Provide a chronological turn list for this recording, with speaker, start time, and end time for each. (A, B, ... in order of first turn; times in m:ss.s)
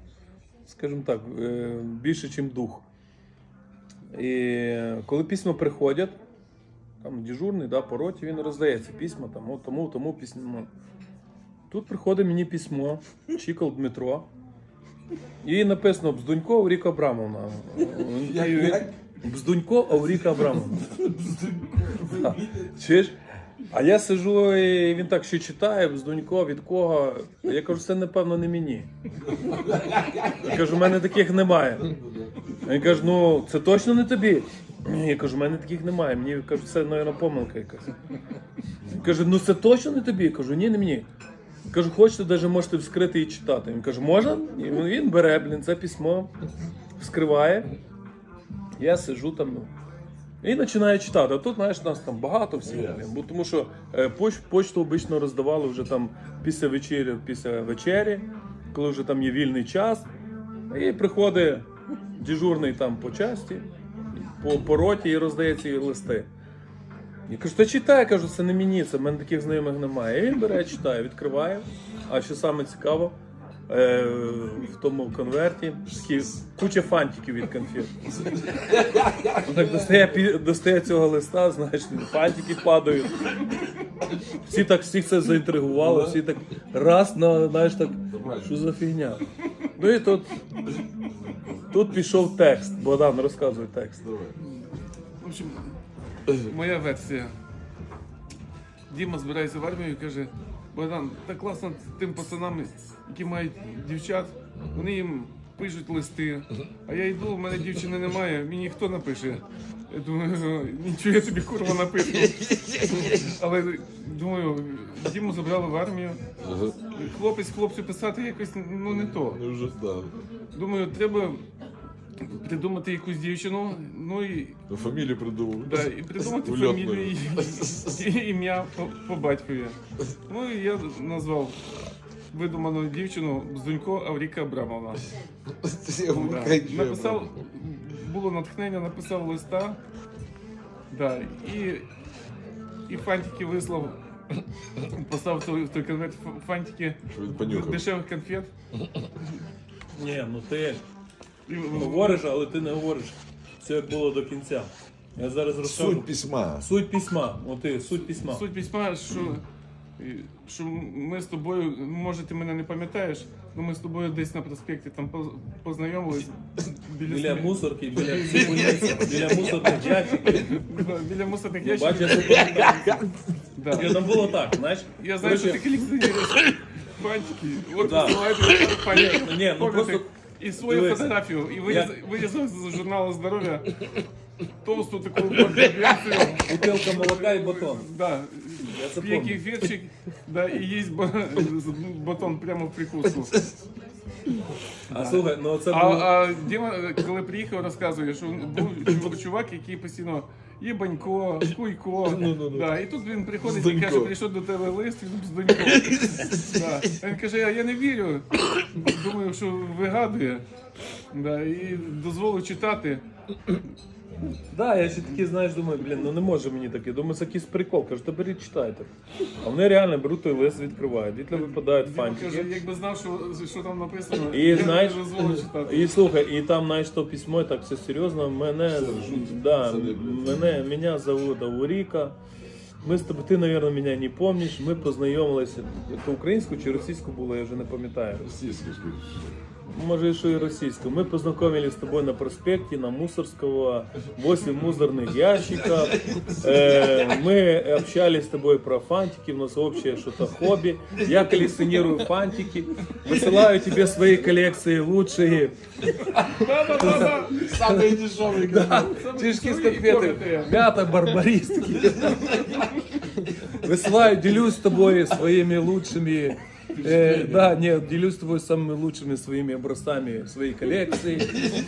0:00.6-0:02.8 A
0:04.1-0:06.2 A
0:07.0-0:10.7 A
0:11.7-0:14.3 A
0:15.4-0:21.0 A
0:18.0-0:19.0 B
0:20.9-0:22.8 B
0:22.1-0:23.1 A
0:23.7-0:28.9 A
0:29.4-0:30.4 B
0:30.2-0:31.9 A
0:31.8-0:32.5 B
0:32.6-0:37.9 A
0:38.9-0:41.1 A
0:41.7-0:46.3 A
0:47.0-0:47.7 A
0:48.8-0:49.7 A
0:50.4-1:00.1 A
1:00.7-1:06.3 A
1:07.3-1:13.2 A
1:13.7-1:18.0 A
1:15.9-1:16.2 B
1:18.2-1:19.6 B
1:19.4-1:23.4 A
1:24.3-1:29.2 A
1:25.7-1:26.2 B
1:28.1-1:28.6 B
1:29.7-1:30.3 A
1:31.7-1:34.0 A
1:34.0-1:34.4 B
1:35.2-1:35.7 C
1:36.3-1:37.3 C
1:38.9-1:56.2 C
1:44.6-1:44.8 B
1:56.4-1:56.8 B
1:56.9-1:59.4 C
1:58.9-2:00.1 B
2:00.5-2:01.4 C
2:02.2-2:04.6 C
2:04.7-2:08.0 B
2:05.6-2:09.8 C
2:10.3-2:11.6 C
2:12.3-2:15.0 C
2:15.5-2:17.4 B
2:16.1-2:19.8 C
2:20.9-2:21.9 C
2:22.9-2:24.0 C
2:24.8-2:28.5 C
2:27.1-2:27.9 B
2:29.9-2:30.8 A
2:31.5-2:32.2 C
2:31.7-2:38.4 A
2:35.6-2:36.6 B
2:38.2-2:39.4 C
2:40.0-2:52.9 C
2:47.0-2:50.5 A
2:48.3-2:49.5 B
2:51.6-2:53.0 A
2:52.5-2:53.2 B
2:53.6-2:54.1 C
2:53.7-2:55.6 A
2:55.0-3:04.0 C
2:57.8-2:58.2 A
2:58.7-3:01.9 A
3:04.6-3:13.3 C
3:06.4-3:07.9 A
3:08.6-3:09.6 A
3:14.9-3:16.1 A
3:14.9-3:30.4 C
3:22.0-3:22.7 B
3:23.4-3:24.1 B
3:25.9-3:26.4 B
3:31.1-3:33.0 C
3:34.5-3:38.9 A
3:39.4-3:42.6 A
3:41.3-3:45.9 C
3:44.3-3:52.2 A
3:48.7-3:50.5 B
3:52.8-3:58.3 A
3:58.2-3:59.4 B
3:59.7-4:15.5 A
4:05.5-4:07.0 B
4:16.2-4:17.6 C
4:16.7-4:17.8 A
4:17.2-4:19.0 B
4:18.4-4:22.5 A
4:18.8-4:21.0 C
4:21.9-4:23.0 C
4:23.4-4:31.4 A
4:26.8-4:27.6 B